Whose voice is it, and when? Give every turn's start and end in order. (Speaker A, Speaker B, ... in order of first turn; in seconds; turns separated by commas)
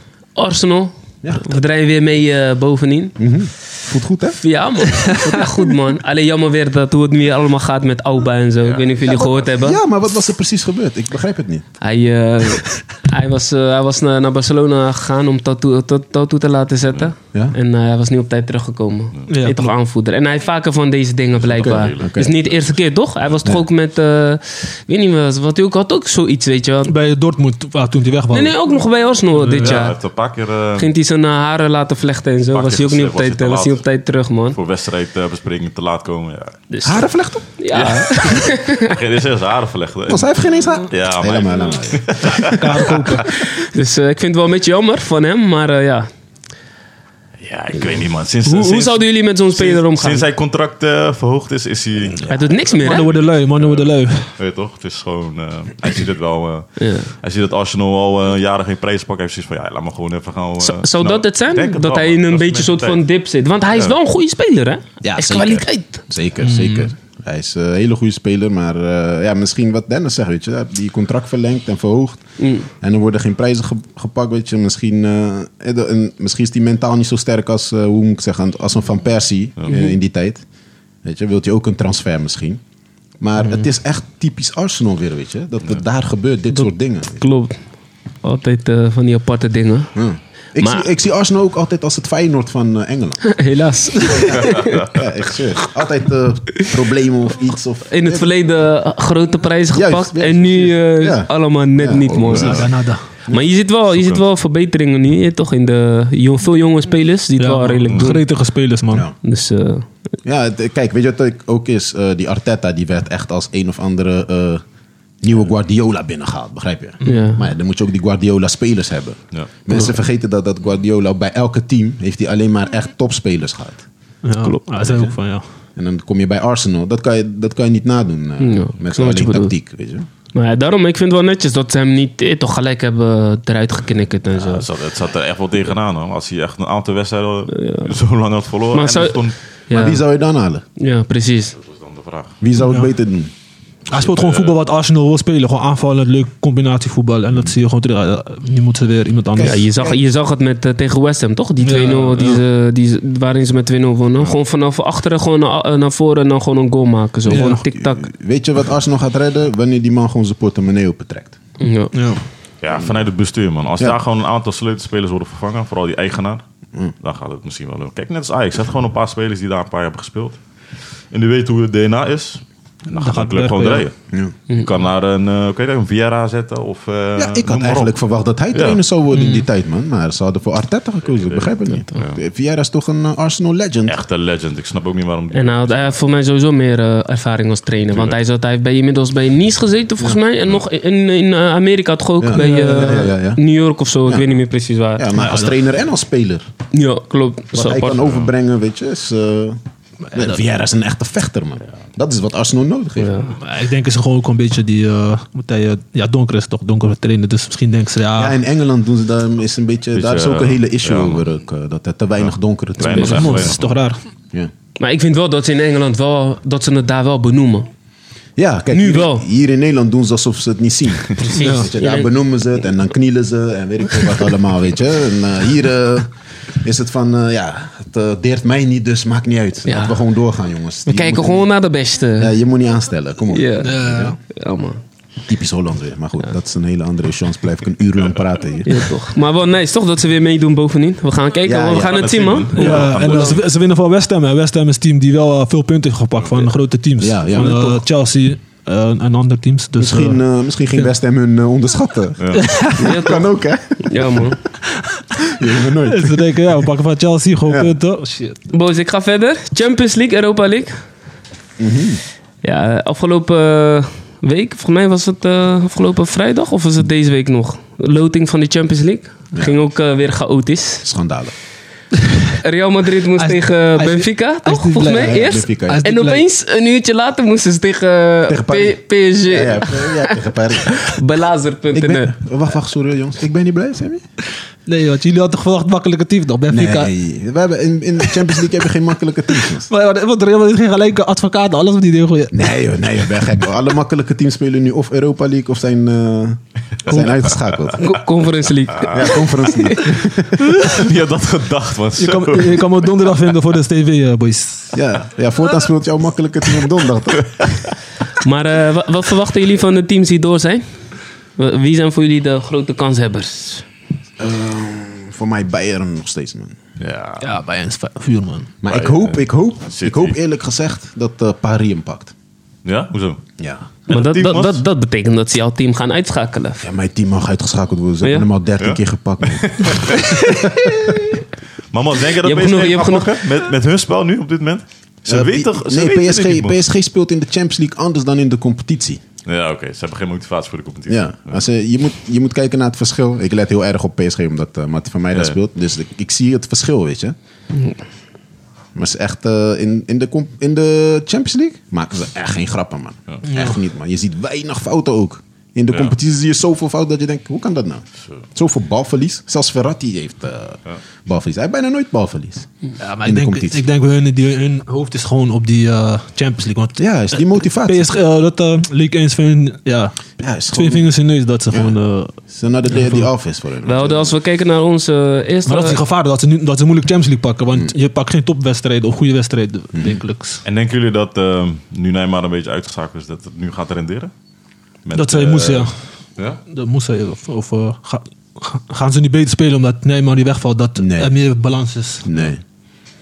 Speaker A: 0.3-3.2, Speaker B: 3.2-4.4, Speaker A: 4.3-9.8, Speaker C: 8.6-9.4, Speaker B: 9.5-11.7, Speaker A: 11.8-26.9, Speaker D: 19.3-19.7, Speaker C: 21.4-22.5, Speaker B: 21.6-22.3, Speaker D: 26.8-28.6, Speaker A: 28.3-30.0, Speaker D: 29.4-29.8, Speaker C: 29.5-30.9, Speaker A: 30.8-34.6, Speaker C: 32.5-33.8, Speaker C: 34.5-36.6, Speaker A: 36.7-39.0, Speaker B: 36.8-38.4, Speaker C: 37.7-43.0, Speaker B: 40.1-43.0, Speaker D: 42.4-43.3, Speaker A: 43.4-46.1, Speaker C: 47.4-63.0, Speaker A: 47.8-50.2, Speaker A: 52.3-53.1, Speaker D: 52.6-54.3, Speaker A: 56.8-57.1, Speaker A: 60.6-66.0, Speaker B: 65.0-80.4, Speaker D: 66.4-66.8, Speaker A: 72.4-72.7, Speaker A: 79.7-80.0, Speaker B: 81.0-82.6, Speaker B: 83.2-87.2, Speaker A: 86.5-87.6, Speaker A: 88.2-89.9, Speaker B: 89.9-93.2, Speaker A: 90.6-90.9, Speaker A: 93.2-94.9, Speaker C: 94.5-94.8, Speaker B: 94.7-98.3, Speaker A: 97.9-102.7, Speaker B: 99.7-102.7, Speaker C: 102.3-102.6, Speaker D: 102.3-103.0, Speaker A: 103.3-108.2, Speaker C: 103.9-104.2, Speaker D: 107.4-109.1, Speaker A: 109.2-109.9, Speaker B: 110.2-114.6, Speaker B: 115.2-123.8, Speaker A: 117.0-117.4, Speaker D: 117.0-117.3, Speaker D: 124.2-125.4, Speaker B: 124.8-125.2, Speaker B: 125.8-130.1, Speaker A: 128.4-129.5, Speaker A: 130.3-134.7, Speaker C: 134.3-139.4, Speaker A: 137.5-137.9, Speaker A: 138.7-140.0, Speaker B: 139.7-140.6, Speaker A: 140.8-141.5, Speaker C: 141.6-142.4, Speaker B: 142.4-143.3, Speaker D: 142.6-142.9, Speaker D: 143.9-149.6, Speaker C: 143.9-144.6, Speaker B: 149.3-150.0, Speaker A: 149.4-158.1, Speaker D: 151.6-152.4, Speaker B: 157.2-161.4, Speaker D: 157.3-157.6, Speaker A: 161.6-161.9, Speaker D: 161.9-162.2, Speaker C: 162.6-166.4, Speaker C: 167.0-170.4, Speaker C: 171.1-173.9, Speaker D: 172.9-173.9, Speaker C: 174.5-177.9, Speaker B: 177.2-184.0, Speaker C: 178.5-178.8, Speaker A: 179.2-179.4, Speaker C: 181.1-182.2, Speaker C: 183.8-186.0, Speaker A: 185.3-195.1, Speaker C: 187.9-188.2, Speaker B: 192.2-193.4, Speaker D: 192.3-193.1, Speaker B: 194.0-194.3, Speaker B: 194.9-196.5, Speaker D: 195.1-195.5, Speaker A: 196.7-198.1, Speaker B: 197.5-199.6, Speaker D: 200.1-200.4, Speaker B: 200.1-203.2, Speaker A: 203.0-203.4, Speaker D: 203.3-208.4, Speaker B: 208.1-213.6, Speaker C: 209.9-211.2, Speaker C: 212.8-213.7, Speaker D: 212.9-214.0, Speaker A: 212.9-213.2, Speaker A: 214.8-217.7, Speaker B: 218.4-231.5, Speaker A: 218.7-219.2, Speaker A: 221.2-222.1, Speaker D: 221.3-221.7, Speaker A: 229.7-230.0, Speaker A: 230.8-232.3, Speaker B: 232.2-234.2, Speaker A: 233.3-234.8, Speaker D: 233.6-234.2, Speaker B: 235.3-238.9, Speaker A: 238.6-243.3, Speaker B: 241.4-242.8, Speaker C: 241.8-243.4, Speaker D: 242.5-250.2, Speaker C: 246.2-246.5, Speaker B: 247.0-247.8, Speaker B: 249.8-254.3, Speaker C: 252.2-252.4, Speaker D: 252.3-253.0, Speaker A: 252.8-253.3, Speaker A: 253.8-254.4, Speaker B: 255.3-256.2, Speaker D: 255.8-258.4, Speaker B: 257.5-257.7, Speaker A: 258.5-260.8, Speaker B: 261.6-262.0, Speaker A: 262.4-270.9, Speaker B: 269.3-269.6, Speaker B: 270.8-271.3, Speaker A: 272.4-282.1, Speaker D: 273.2-276.2, Speaker B: 274.9-275.9, Speaker B: 278.3-280.9, Speaker B: 281.7-284.0, Speaker D: 284.6-286.9, Speaker B: 286.5-289.7, Speaker D: 289.7-292.5, Speaker B: 292.3-297.9, Speaker D: 296.9-297.3, Speaker A: 297.8-300.1, Speaker C: 298.8-299.1, Speaker B: 298.9-300.6, Speaker D: 300.5-300.8, Speaker C: 300.5-303.0, Speaker D: 302.0-304.8, Speaker B: 304.7-307.5, Speaker A: 308.2-310.8, Speaker A: 311.4-313.6, Speaker B: 314.2-316.6, Speaker C: 316.8-317.3, Speaker D: 317.2-318.5, Speaker B: 318.6-322.1, Speaker C: 318.6-320.2, Speaker C: 322.6-323.2, Speaker B: 323.4-323.7, Speaker A: 323.9-326.6, Speaker C: 323.9-324.6, Speaker B: 326.6-330.9, Speaker C: 328.6-330.1, Speaker A: 329.9-331.0, Speaker C: 331.7-336.6, Speaker A: 332.2-333.2, Speaker B: 335.1-339.0, Speaker C: 339.2-341.4, Speaker B: 340.9-347.1, Speaker B: 348.7-362.5, Speaker D: 353.2-353.6, Speaker D: 362.8-370.0, Speaker B: 363.0-363.6, Speaker B: 366.8-367.9, Speaker B: 370.2-370.9, Speaker D: 370.5-372.2, Speaker B: 371.5-374.1, Speaker D: 372.7-373.1, Speaker A: 373.6-375.8, Speaker D: 375.4-380.4, Speaker B: 379.7-380.0, Speaker C: 380.4-384.1, Speaker C: 384.8-386.4, Speaker D: 384.9-385.8, Speaker D: 386.5-392.1, Speaker B: 390.8-391.1, Speaker B: 392.0-392.4